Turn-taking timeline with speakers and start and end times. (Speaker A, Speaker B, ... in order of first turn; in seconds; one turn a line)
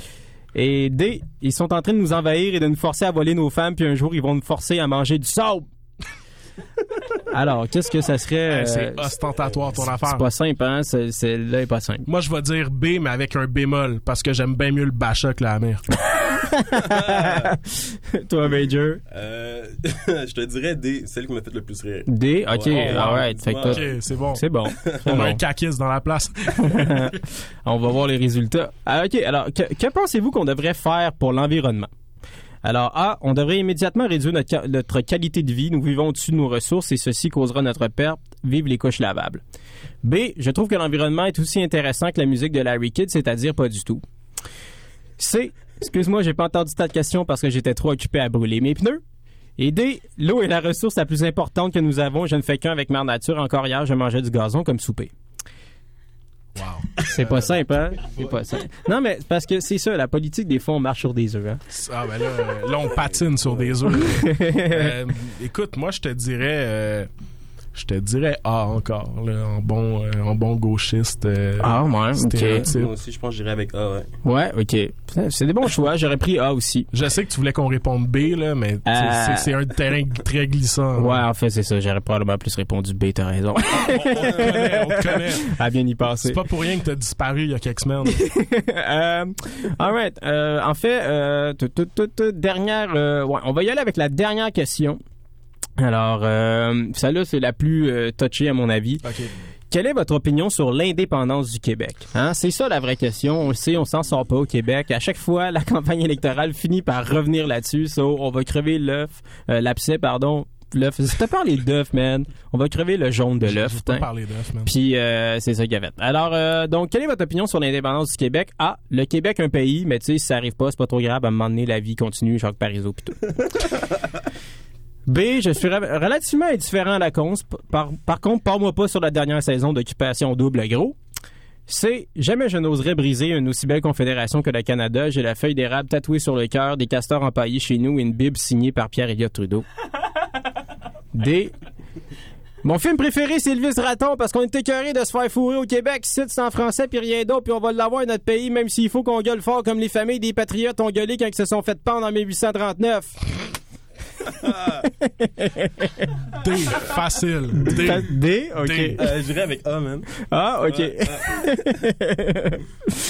Speaker A: 0.6-5.7
Speaker A: 7.3-9.2
Speaker B: 8.5-10.3
Speaker A: 9.8-12.1
Speaker B: 12.1-15.8
Speaker A: 16.4-17.6
Speaker C: 16.9-17.4
Speaker A: 18.2-19.0
Speaker C: 19.1-24.0
Speaker A: 22.1-25.4
Speaker B: 22.7-24.4
Speaker B: 25.1-27.1
Speaker A: 26.7-31.9
Speaker A: 32.6-39.4
Speaker A: 40.0-44.0
Speaker A: 45.2-49.0
Speaker A: 49.6-55.1
Speaker B: 56.5-57.6
Speaker A: 57.1-61.6
Speaker B: 61.7-67.1
Speaker C: 63.4-64.0
Speaker A: 64.1-64.9
Speaker B: 67.8-72.9
Speaker A: 71.6-72.6
Speaker C: 72.7-74.1
Speaker A: 74.2-76.9
Speaker B: 76.9-81.2
Speaker A: 78.9-79.5
Speaker A: 81.0-86.3
Speaker B: 83.8-85.5
Speaker B: 86.2-88.2
Speaker A: 88.2-95.0
Speaker A: 95.8-99.0
Speaker B: 99.0-99.3
Speaker A: 99.7-114.0
Speaker B: 113.5-114.7
Speaker A: 114.7-123.3
Speaker A: 125.1-131.0
Speaker A: 131.7-139.7
Speaker A: 141.1-141.5
Speaker A: 142.6-153.1
Speaker C: 154.4-154.8
Speaker A: 155.3-156.1
Speaker B: 156.4-158.1
Speaker A: 157.6-159.0
Speaker B: 158.6-159.0
Speaker C: 159.0-160.1
Speaker A: 160.3-162.6
Speaker C: 160.7-161.7